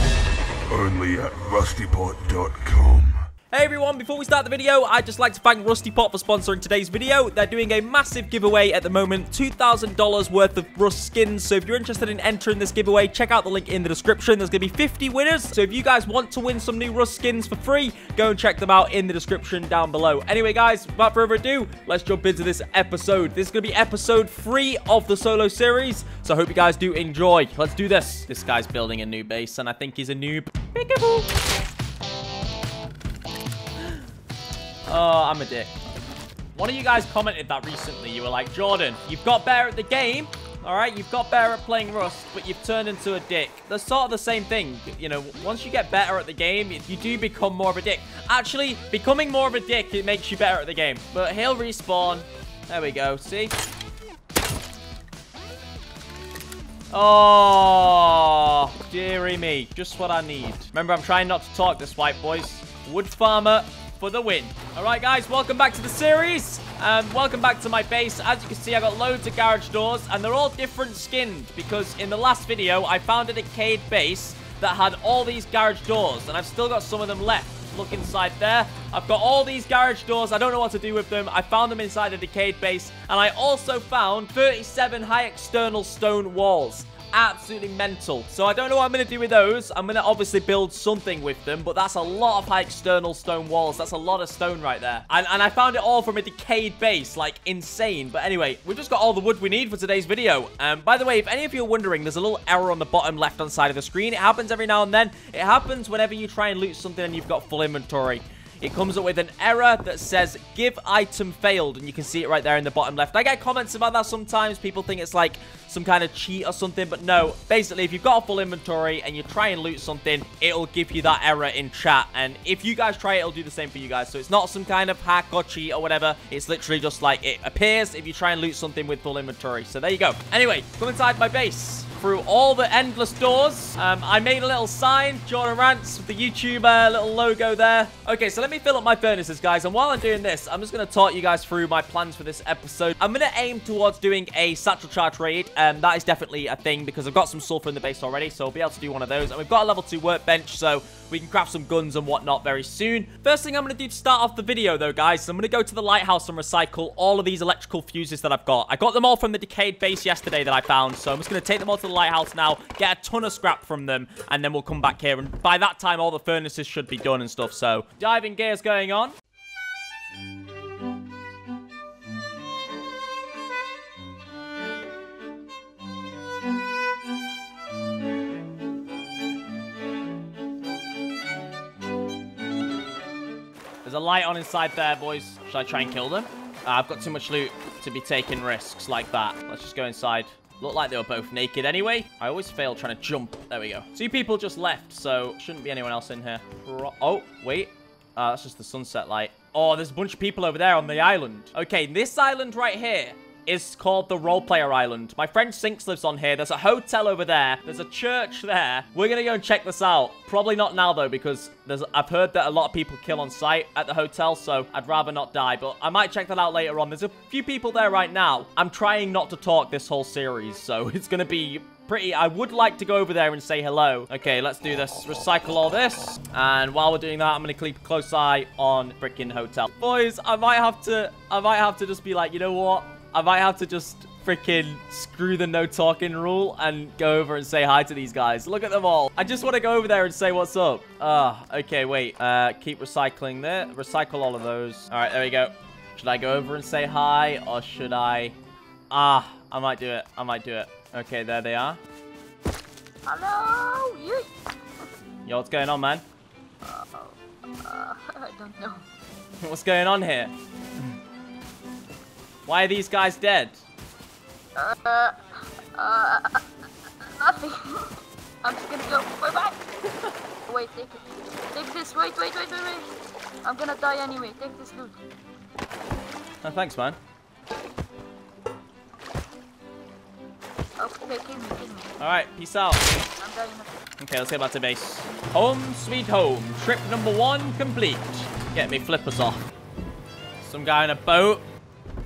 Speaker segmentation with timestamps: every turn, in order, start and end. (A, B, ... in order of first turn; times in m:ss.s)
0:00.7-0:03.2 A
0:03.5-0:31.3 B
0:34.9-0:35.8 B
0:36.5-0:53.6 B
0:56.9-2:49.2 B
3:03.8-4:08.4 B
4:08.9-4:11.8 B
4:13.1-4:14.3 C
4:15.2-4:16.0 B
4:16.6-4:18.8 C
4:19.4-4:20.3 B
4:22.5-4:23.6 B
4:24.6-4:29.6 C
4:30.5-4:32.9 C
4:33.4-4:35.0 C
4:36.4-4:37.0 B
4:40.8-4:42.0 C
4:42.0-4:42.9 B
4:43.1-4:43.7 C
4:44.0-4:49.4 B
4:50.4-4:51.5 B